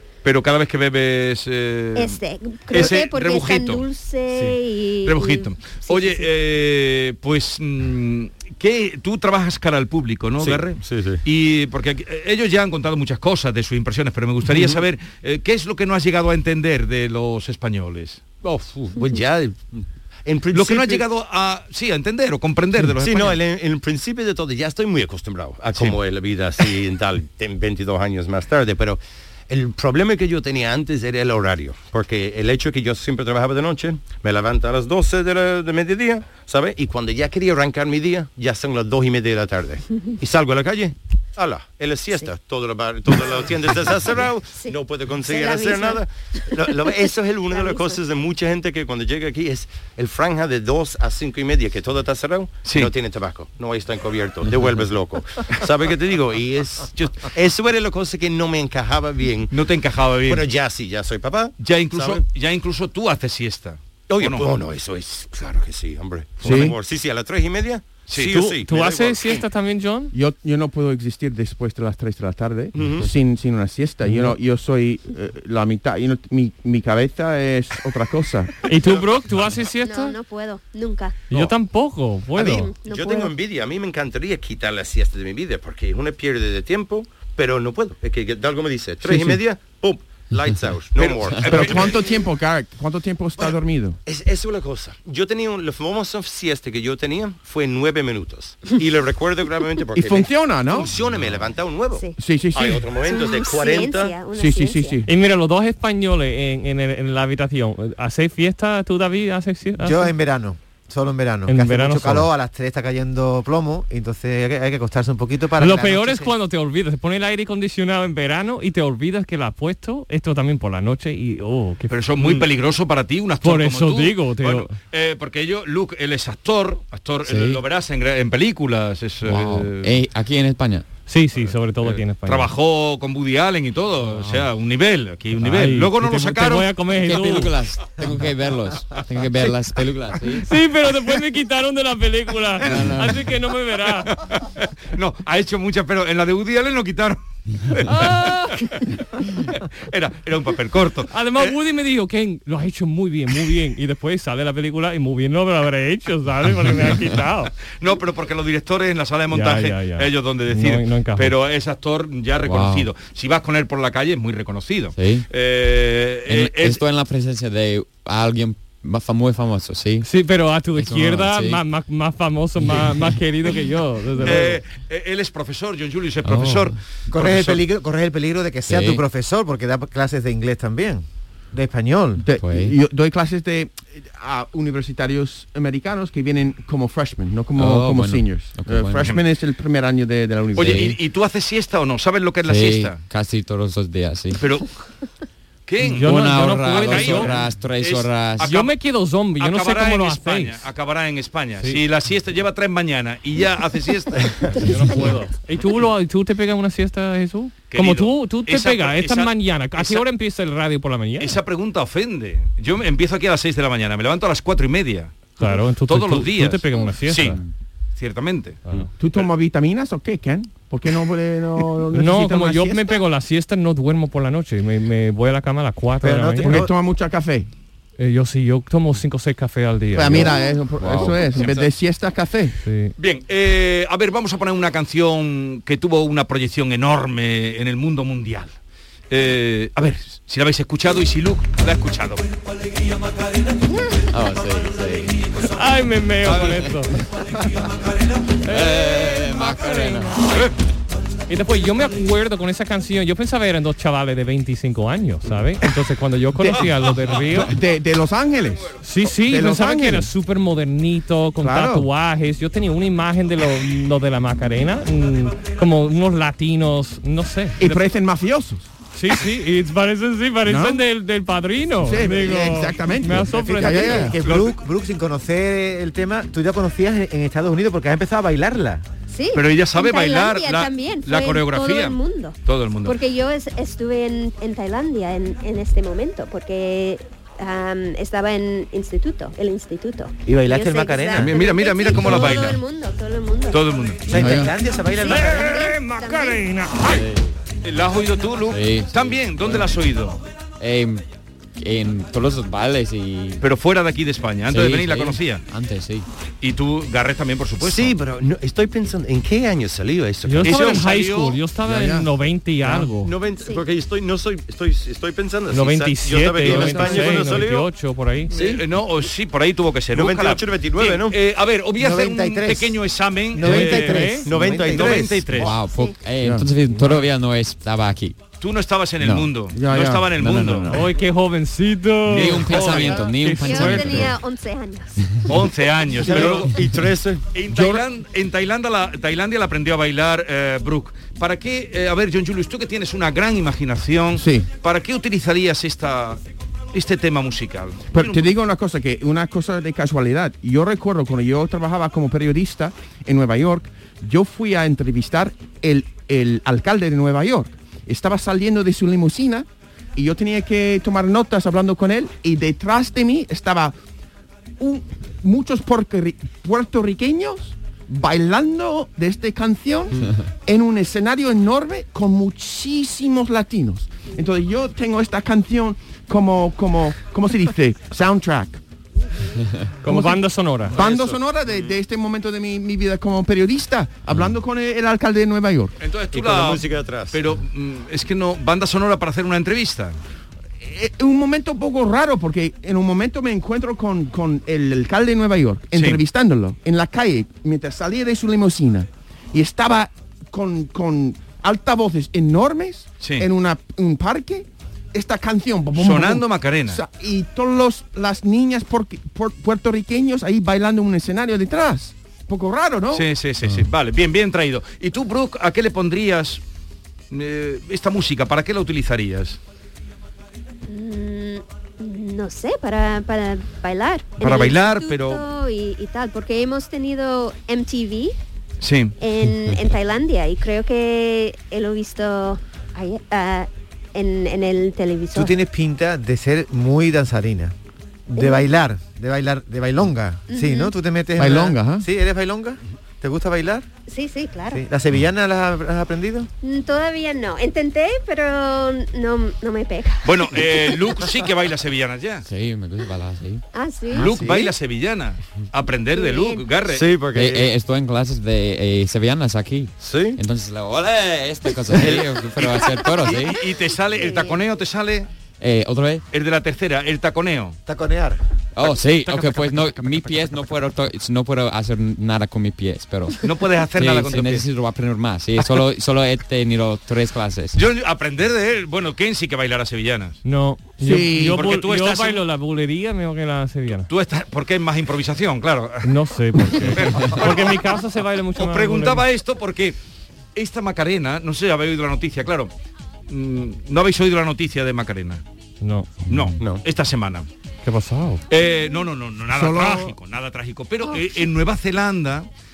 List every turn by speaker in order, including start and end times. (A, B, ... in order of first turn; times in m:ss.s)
0:00.2-0:02.2 A
0:01.9-0:06.3 B
0:02.7-0:18.2 A
0:10.4-0:11.2 C
0:14.5-0:14.8 C
0:18.4-0:21.0 C
0:20.5-0:23.4 A
0:23.0-0:59.6 C
0:44.5-0:46.0 B
0:47.5-0:48.0 B
0:52.6-0:52.9 A
0:59.5-1:00.4 A
1:00.2-1:02.2 C
1:01.6-1:04.5 A
1:04.1-1:09.4 C
1:06.4-1:06.8 D
1:08.1-1:08.3 A
1:08.2-1:10.1 E
1:10.1-1:18.7 D
1:12.7-1:13.1 C
1:18.6-1:20.2 E
1:18.7-1:19.3 C
1:19.8-1:21.2 B
1:21.3-1:22.7 E
1:22.4-1:32.0 C
1:22.4-1:23.3 B
1:29.0-1:29.4 D
1:31.0-1:32.1 A
1:31.4-1:34.0 D
1:34.0-1:44.2 C
1:39.9-1:40.9 D
1:42.2-1:42.9 D
1:43.0-1:45.0 B
1:44.3-1:45.1 D
1:45.0-1:50.1 E
1:49.8-1:56.3 F
1:51.5-1:52.3 E
1:55.6-2:02.4 E
2:01.9-2:10.0 A
2:03.4-2:04.7 E
2:07.2-2:07.6 G
2:09.2-2:10.8 G
2:11.1-2:12.5 E
2:11.8-2:16.7 A
2:14.0-2:14.5 G
2:15.4-2:17.5 E
2:17.0-2:20.5 G
2:20.4-2:24.1 E
2:22.6-2:23.3 G
2:22.6-2:22.9 A
2:24.1-2:31.5 A
2:27.9-2:28.7 E
2:31.1-2:37.5 E
2:37.7-2:46.8 A
2:39.3-2:41.3 E
2:42.4-2:42.9 G
2:45.0-2:45.3 G
2:46.2-2:50.1 G
2:50.0-2:54.6 E
2:50.7-2:51.6 G
2:52.6-2:53.2 G
2:54.2-2:57.6 A
2:56.2-2:56.8 G
2:57.1-3:02.2 F
2:58.6-2:59.0 G
3:02.2-3:10.9 D
3:02.4-3:02.8 G
3:07.6-3:09.2 G
3:10.5-3:13.0 A
3:10.6-3:11.0 G
3:12.4-3:14.4 G
3:14.4-3:14.7 A
3:15.7-3:18.7 A
3:15.8-3:18.6 G
3:15.9-3:17.4 E
3:18.4-3:20.6 E
3:19.4-3:24.5 A
3:24.6-3:31.4 E
3:27.7-3:30.0 A
3:31.2-3:35.1 A
3:35.4-3:37.4 E
3:35.8-3:37.4 A
3:38.0-3:38.6 A
3:39.0-3:43.0 D
3:41.9-3:46.6 E
3:46.0-3:46.7 F
3:46.4-3:47.5 D
3:48.0-3:50.4 E
3:49.9-3:52.5 D
3:50.8-3:51.2 G
3:51.4-3:51.7 A
3:52.6-3:52.9 E
3:53.0-3:58.6 A
3:59.1-4:02.2 A
4:04.0-4:05.2 G
4:05.4-4:06.9 E
4:06.2-4:06.7 A
4:08.4-4:10.2 E
4:08.5-4:10.5 G
4:10.3-4:10.5 A
4:11.3-4:17.5 E
4:16.4-4:16.6 D
4:16.6-4:17.5 A
4:17.3-4:20.1 D
4:18.8-4:27.8 E
4:21.4-4:21.9 D
4:27.6-4:28.7 D
4:28.9-4:34.1 E
4:30.4-4:30.8 D
4:31.8-4:34.2 D
4:33.3-4:38.8 F
4:34.2-4:34.5 A
4:39.1-4:53.6 B
4:39.3-4:43.0 A
4:50.2-4:51.3 F
4:51.2-4:52.6 A
4:53.5-4:54.0 A
4:54.1-4:55.7 F
4:54.1-4:54.5 D
4:54.8-4:56.4 B
4:55.0-4:57.0 E
4:56.8-4:57.4 G
4:57.6-5:00.2 A
4:58.5-4:59.8 G
5:00.6-5:01.0 G
5:01.6-5:03.4 G
5:03.4-5:05.4 A
5:04.5-5:06.0 G
5:06.4-5:07.9 A
5:07.6-5:10.9 C
5:10.3-5:13.1 E
5:10.4-5:11.4 A
5:11.6-5:12.1 D
5:13.0-5:17.7 C
5:13.4-5:13.6 B
5:15.5-5:18.3 E
5:16.4-5:17.4 D
5:18.3-5:18.6 C
5:18.3-5:25.5 A
5:19.9-5:21.2 C
5:21.8-5:22.8 F
5:23.3-5:25.2 F
5:23.4-5:24.3 E
5:23.6-5:25.4 D
5:24.2-5:25.3 C
5:25.3-5:28.2 G
5:25.6-5:26.0 B
5:26.2-5:26.5 D
5:26.7-5:27.0 E
5:28.4-5:30.8 A
5:29.0-5:29.3 G
5:29.5-5:30.1 D
5:30.1-5:30.9 G
5:30.7-5:34.1 E
5:32.1-5:33.0 A
5:32.1-5:34.2 G
5:32.6-5:35.2 B
5:35.2-5:36.6 A
5:36.0-5:37.3 C
5:37.3-5:46.2 A
5:37.5-5:37.8 D
5:44.1-5:44.5 D
5:46.7-5:48.3 A
5:47.9-6:03.7 D
6:04.6-6:18.6 D
6:19.8-6:20.8 E
6:19.8-6:25.7 D
6:20.7-6:21.7 C
6:25.8-6:30.0 A
6:26.1-6:27.2 C
6:30.6-6:53.0 D
6:35.7-6:36.0 A
6:43.0-6:43.3 A
6:45.7-6:46.8 A
6:52.9-6:56.4 A
6:57.1-6:59.4 A
7:00.7-7:08.1 B
7:04.2-7:05.2 A
7:08.6-7:08.9 A
7:09.0-7:15.3 B
7:15.1-7:17.5 F
7:18.1-7:23.7 F
7:18.1-7:18.6 B
7:20.3-7:20.7 B
7:21.2-7:21.9 D
7:23.9-7:24.6 B
7:24.5-7:26.3 F
7:26.4-7:30.8 B
7:30.0-7:32.2 A
7:32.2-7:33.4 G
7:33.5-7:34.2 B
7:33.9-7:36.9 A
7:34.0-7:34.5 C
7:35.9-7:36.4 B
7:36.7-7:37.5 C
7:37.1-7:43.4 G
7:39.8-7:40.2 C
7:41.7-7:45.1 A
7:44.0-7:44.4 B
7:45.4-7:46.0 G
7:46.1-7:47.6 A
7:47.6-7:48.2 F
7:48.5-7:57.6 G
7:48.6-7:49.7 A
7:53.2-7:54.4 A
7:57.5-8:00.2 A
8:00.2-8:03.9 E
8:00.8-8:01.4 D
8:01.3-8:02.2 A
8:03.9-8:05.9 A
8:05.8-8:09.0 E
8:06.5-8:07.6 A
8:08.4-8:09.8 A
8:10.3-8:12.5 A
8:13.1-8:15.2 A
8:15.6-8:16.1 E
8:16.1-8:17.3 A
8:17.6-8:18.2 E
8:18.3-8:22.3 A
8:19.3-8:19.9 D